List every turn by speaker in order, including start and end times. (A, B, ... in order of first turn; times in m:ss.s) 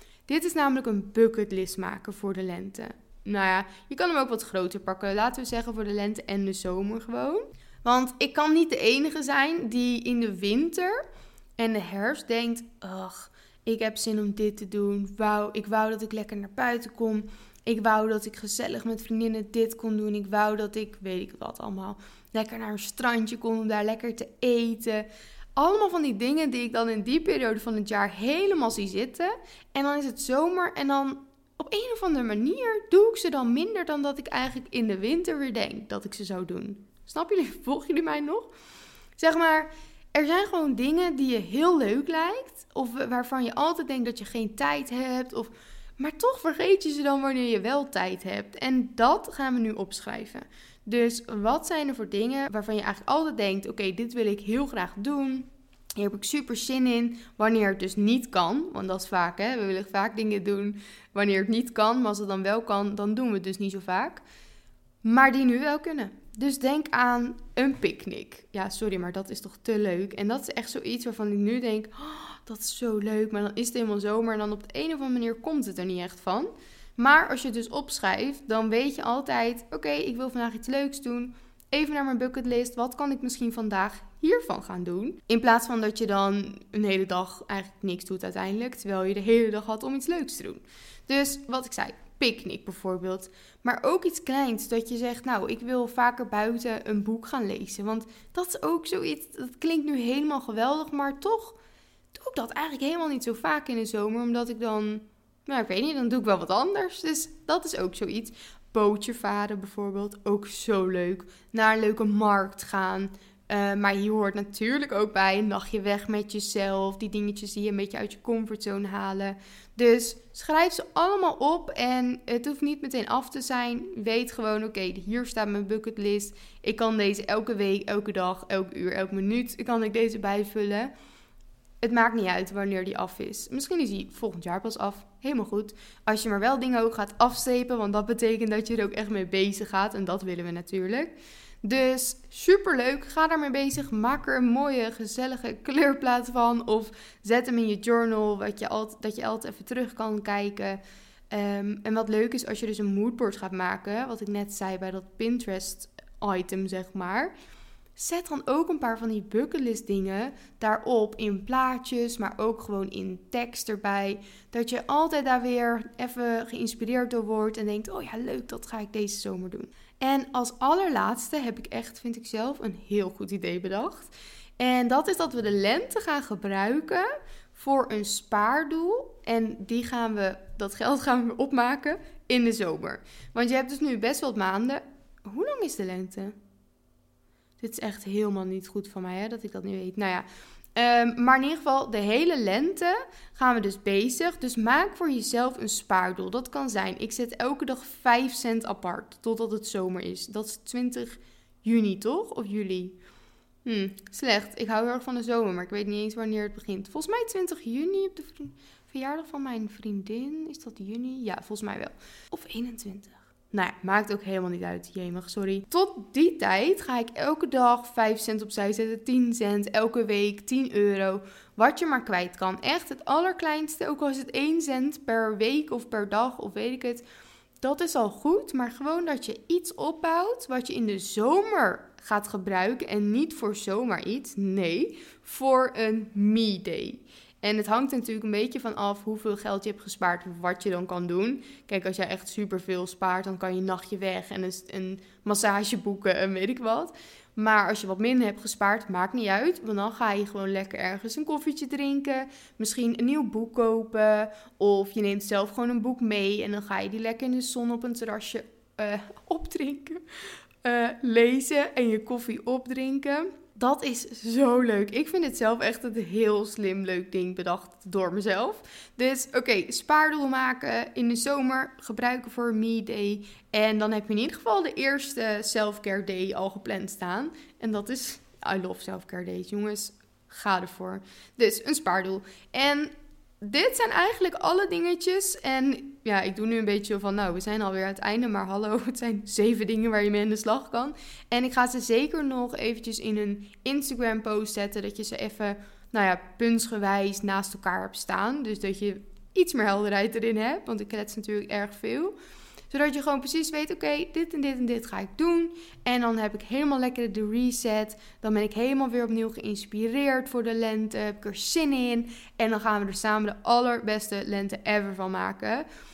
0:00.3-0:11.0 A
0:11.6-0:38.5 A
0:39.2-1:04.2 A
1:05.0-1:41.6 A
1:42.1-2:10.9 A
2:11.8-2:30.8 A
2:31.3-2:37.3 A
2:38.0-3:06.4 A
3:07.6-3:23.0 A
3:23.6-3:47.0 A
3:47.6-4:20.0 A
4:20.6-5:02.2 A
5:02.7-5:15.6 A